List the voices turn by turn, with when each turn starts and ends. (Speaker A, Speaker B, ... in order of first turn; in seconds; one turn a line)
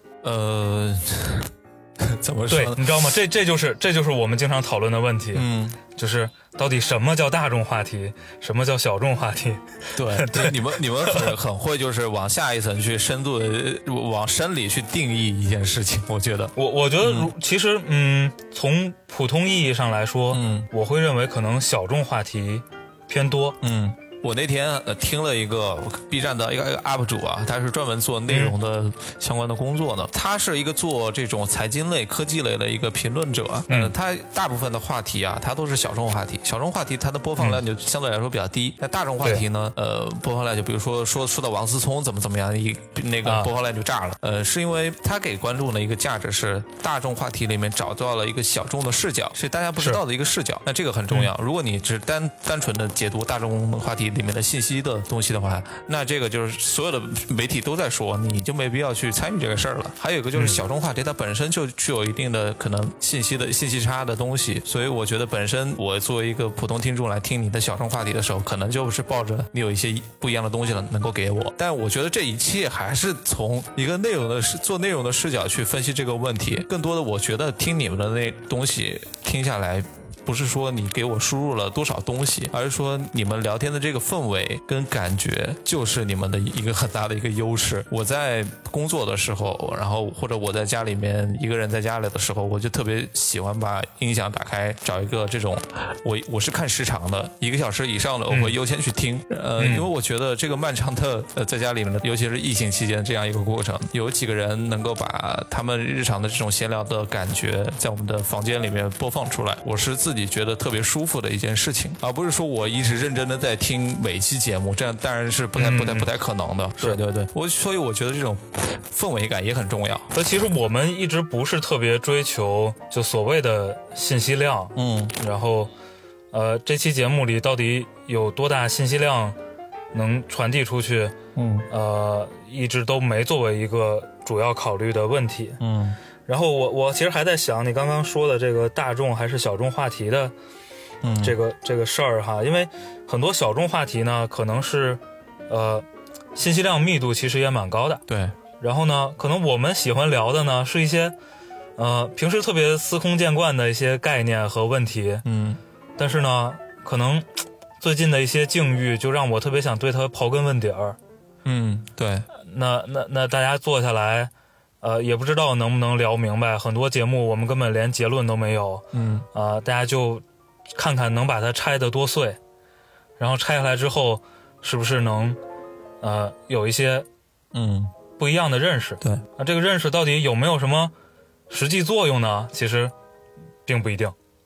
Speaker A: 0.2-2.9
Speaker B: 2.5-11.3
Speaker A: 5.3-5.8
Speaker A: 9.9-17.3
Speaker B: 16.6-23.6
Speaker A: 20.3-20.7
Speaker A: 23.6-120.1
Speaker B: 28.3-28.5
Speaker B: 43.2-43.5
Speaker B: 60.3-60.6
Speaker B: 98.3-98.5
Speaker B: 99.6-99.8
Speaker B: 115.5-116.1
Speaker B: 120.1-125.7
Speaker A: 124.7-125.1
Speaker B: 126.3-129.3
Speaker B: 129.9-131.1
Speaker A: 131.3-131.7
Speaker B: 131.7-135.6
Speaker A: 135.6-136.0
Speaker B: 136.2-140.3
Speaker A: 141.0-141.3
Speaker B: 141.2-145.8
Speaker B: 146.3-148.0
Speaker A: 148.1-148.3
Speaker B: 148.6-151.1
Speaker B: 151.8-155.2
Speaker A: 155.2-155.6
Speaker B: 156.0-157.3
Speaker B: 157.8-161.0
Speaker A: 161.4-162.3
Speaker B: 162.3-164.3
Speaker B: 164.8-172.4
Speaker A: 168.9-169.2
Speaker B: 173.2-175.4
Speaker B: 176.0-177.1
Speaker A: 177.5-177.9
Speaker B: 178.2-180.9
Speaker B: 181.5-182.9
Speaker B: 183.7-184.1